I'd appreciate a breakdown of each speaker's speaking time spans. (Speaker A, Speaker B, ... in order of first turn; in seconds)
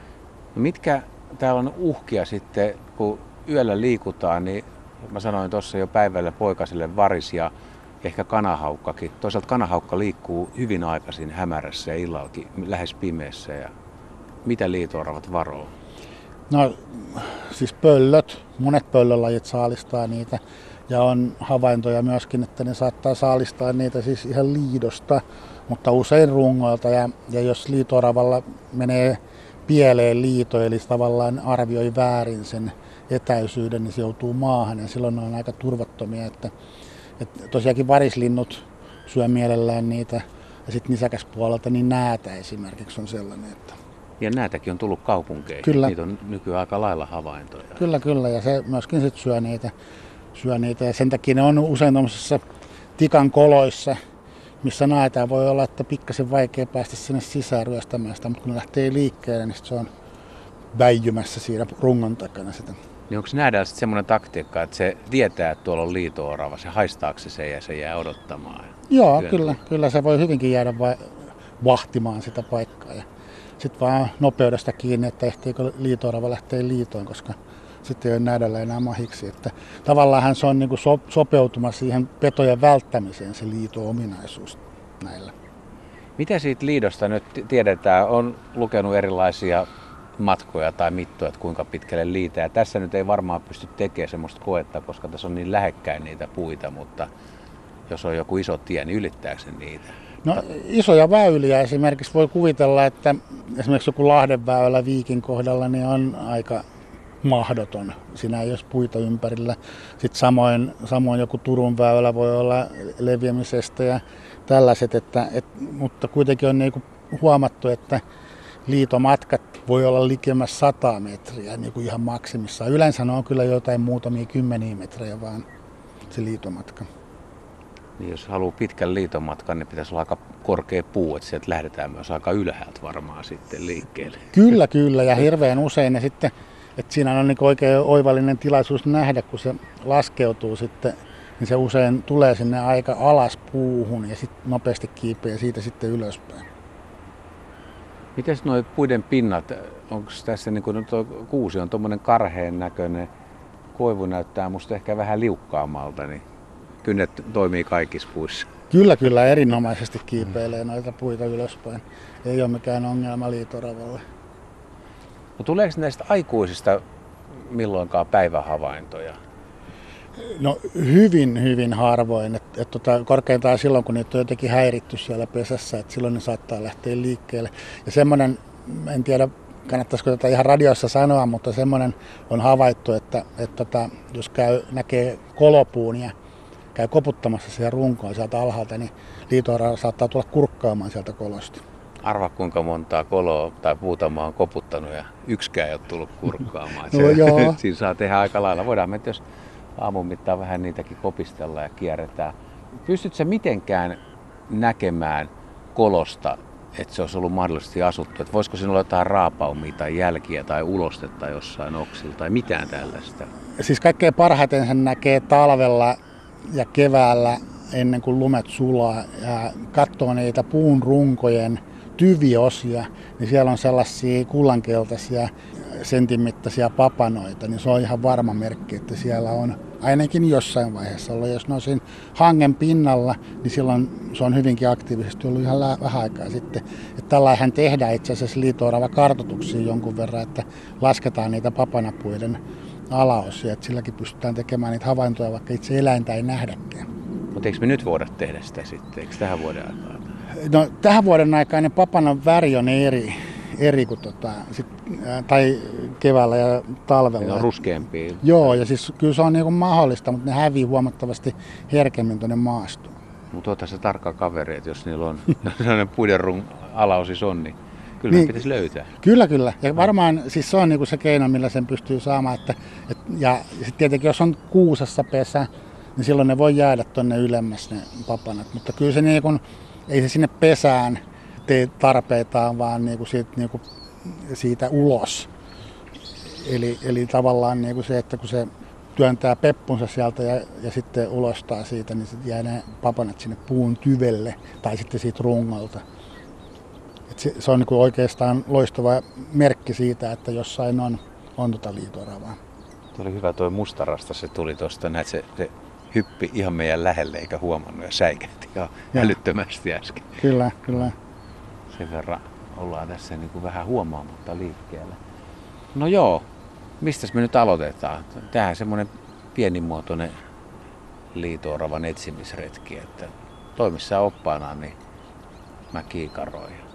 Speaker A: 0.6-13.7, 14.4-15.7, 44.2-47.8, 63.1-69.6, 86.2-89.7, 90.2-97.1, 97.9-99.9, 128.0-134.3, 148.2-153.1, 153.7-156.2, 156.8-158.5, 165.4-169.2, 192.0-199.2, 199.8-202.3, 202.8-213.3, 247.3-250.1, 257.2-258.6, 263.3-268.9, 302.9-310.2, 311.7-315.0, 315.7-316.3, 316.8-320.1, 321.1-324.8, 325.7-326.6
Speaker B: 16.5-36.5, 37.2-43.8, 45.6-45.9, 47.8-49.7, 50.4-52.4, 53.0-54.0, 54.6-59.9, 60.7-62.8, 68.9-73.0, 73.6-85.3, 100.2-106.6, 107.2-118.0, 118.7-125.5, 126.1-126.9, 134.3-146.4, 158.7-164.0, 170.2-186.1, 186.8-191.6, 196.9-197.6, 213.6-242.4, 242.9-246.9, 250.3-257.6, 258.2-262.9, 268.1-268.4, 269.0-285.3, 286.2-295.8, 297.1-302.4, 310.2-310.9